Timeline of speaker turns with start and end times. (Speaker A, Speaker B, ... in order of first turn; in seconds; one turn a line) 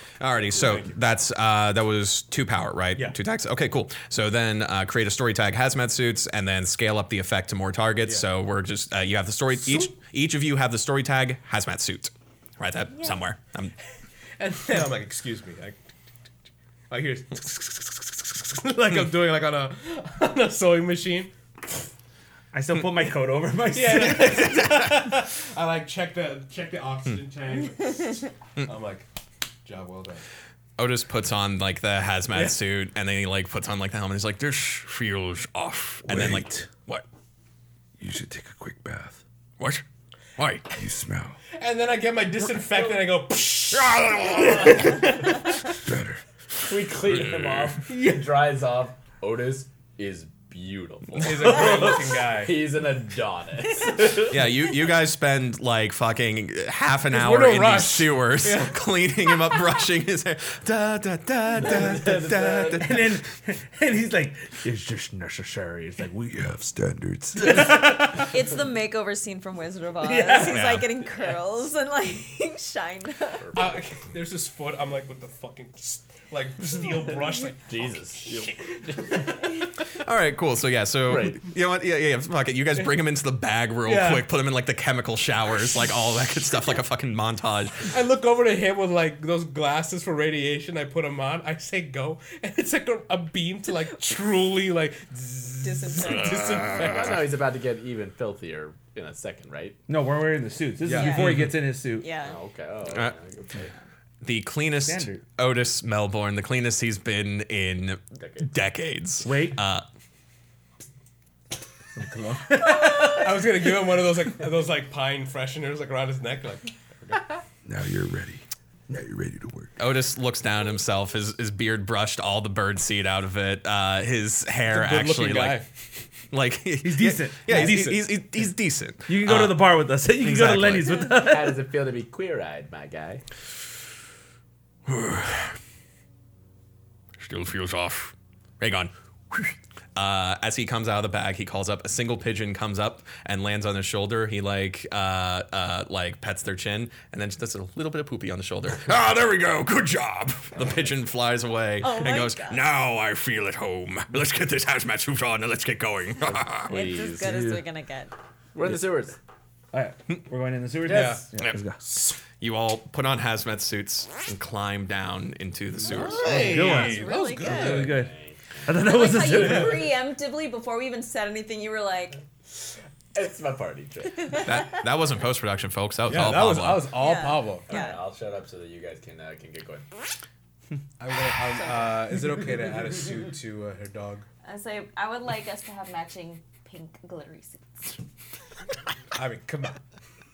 Speaker A: 0.2-13.7
Speaker B: 0.5-1.0
Speaker B: 14.4-15.8
Speaker B: 16.9-21.3
Speaker C: 22.5-24.7
Speaker B: 23.7-29.1
Speaker B: 29.6-30.2
Speaker A: 30.8-34.6
Speaker D: 34.5-36.2
Speaker A: 36.1-37.0
Speaker E: 36.2-36.5
Speaker E: 38.0-39.2
Speaker D: 39.6-39.8
Speaker D: 40.4-40.7
Speaker E: 40.7-41.4
Speaker B: 41.6-45.4
Speaker D: 43.7-44.8
Speaker E: 45.8-46.2
Speaker F: 46.6-54.4
Speaker D: 47.3-47.7
Speaker B: 47.9-48.2
Speaker B: 51.2-52.6
Speaker A: 54.3-63.1
Speaker B: 57.1-58.8
Speaker F: 61.6-63.0
Speaker C: 62.7-66.4
Speaker E: 66.3-67.7
Speaker C: 67.4-68.3
Speaker G: 68.1-73.6
Speaker C: 70.0-70.7
Speaker A: 70.5-70.9
Speaker F: 73.4-73.8
Speaker B: 73.5-79.5
Speaker F: 77.7-79.3
Speaker A: 80.0-87.9
Speaker F: 81.1-81.5
Speaker B: 83.8-84.3
Speaker B: 87.9-97.3
Speaker G: 95.6-96.6
Speaker D: 96.4-96.9
Speaker F: 96.7-99.8
Speaker C: 99.9-102.1
Speaker B: 100.8-101.5
Speaker G: 100.9-102.4
Speaker F: 102.2-103.7
Speaker A: 102.9-103.2
Speaker A: 104.2-109.9
Speaker C: 104.8-105.2
Speaker F: 108.2-108.5
Speaker C: 109.2-109.6
Speaker C: 112.0-113.2
Speaker B: 112.6-117.2
Speaker E: 117.6-119.8
Speaker A: 119.8-125.7
Speaker B: 124.7-125.7
Speaker A: 126.3-131.0
Speaker C: 126.8-127.9
Speaker B: 127.5-128.1
Speaker C: 129.1-131.6
Speaker F: 131.0-133.2
Speaker D: 134.9-135.6
Speaker D: 137.2-138.1
Speaker A: 138.6-139.4
Speaker A: 140.0-149.0
Speaker D: 148.8-150.6
Speaker A: 150.5-152.6
Speaker G: 151.8-152.7
Speaker D: 152.5-156.7
Speaker F: 156.6-157.5
Speaker G: 156.7-158.1
Speaker C: 157.2-157.7
Speaker F: 158.6-159.2
Speaker C: 159.7-161.8
Speaker B: 160.9-161.3
Speaker B: 161.8-162.2
Speaker A: 162.2-166.6
Speaker B: 165.8-168.0
Speaker G: 166.0-167.9
Speaker C: 166.3-168.1
Speaker F: 167.4-169.8
Speaker C: 168.7-169.8
Speaker G: 168.8-172.2
Speaker F: 173.1-174.5
Speaker G: 174.2-174.5
Speaker A: 174.3-177.0
Speaker B: 176.1-177.7
Speaker G: 176.9-178.0
Speaker F: 177.7-179.9
Speaker B: 181.0-184.3
Speaker G: 181.5-182.0
Speaker G: 184.4-188.0
Speaker B: 189.1-189.8